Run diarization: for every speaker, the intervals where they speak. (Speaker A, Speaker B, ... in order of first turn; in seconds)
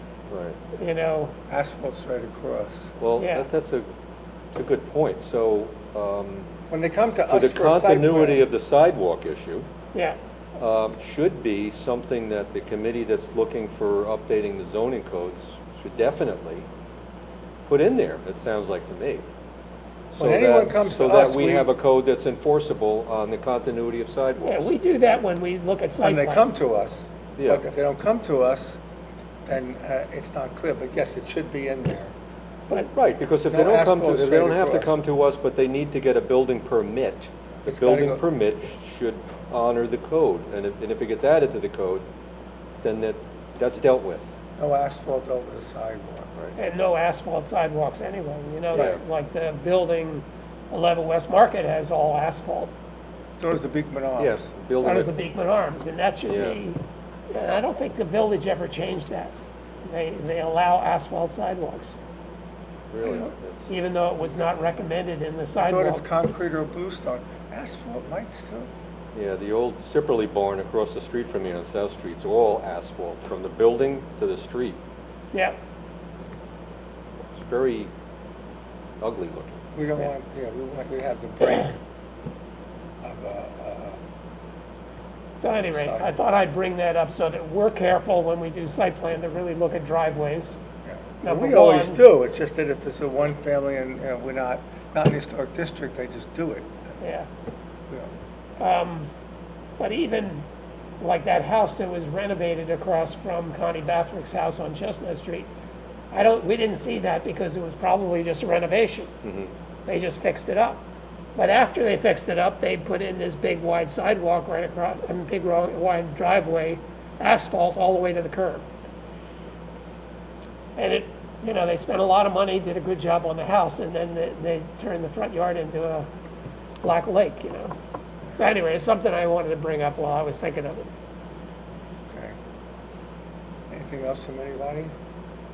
Speaker A: 0.3-0.6, 3.0-3.9, 4.5-6.5, 7.3-9.7, 10.6-16.7, 17.6-19.2, 20.1-24.7, 27.4-27.6, 32.9-42.0, 42.8-44.3, 48.7-49.0, 54.2-55.2, 56.3-56.6, 62.9-63.7, 69.1-74.8, 77.3-77.9, 79.0-79.5, 109.2-109.5
Speaker B: 0.7-1.3, 3.2-3.5, 24.4-26.6, 46.5-52.7, 54.7-56.8, 57.3-62.0, 63.7-66.0, 85.4-90.6, 91.2-92.0, 97.0-97.3, 98.6-99.1, 99.8-100.5, 101.0-105.5, 106.1-109.1, 109.8-110.8, 111.3-118.7, 120.8-126.1, 126.8-127.7, 128.3-130.9
Speaker C: 1.5-2.9, 6.7-8.4, 20.2-21.7, 26.0-28.8, 29.4-32.1, 33.5-35.0, 37.6-38.2, 44.6-46.3, 53.4-54.4, 65.6-68.7, 79.7-81.7, 83.0-84.0, 85.7-86.2, 90.8-96.8, 132.1-132.3, 133.7-134.9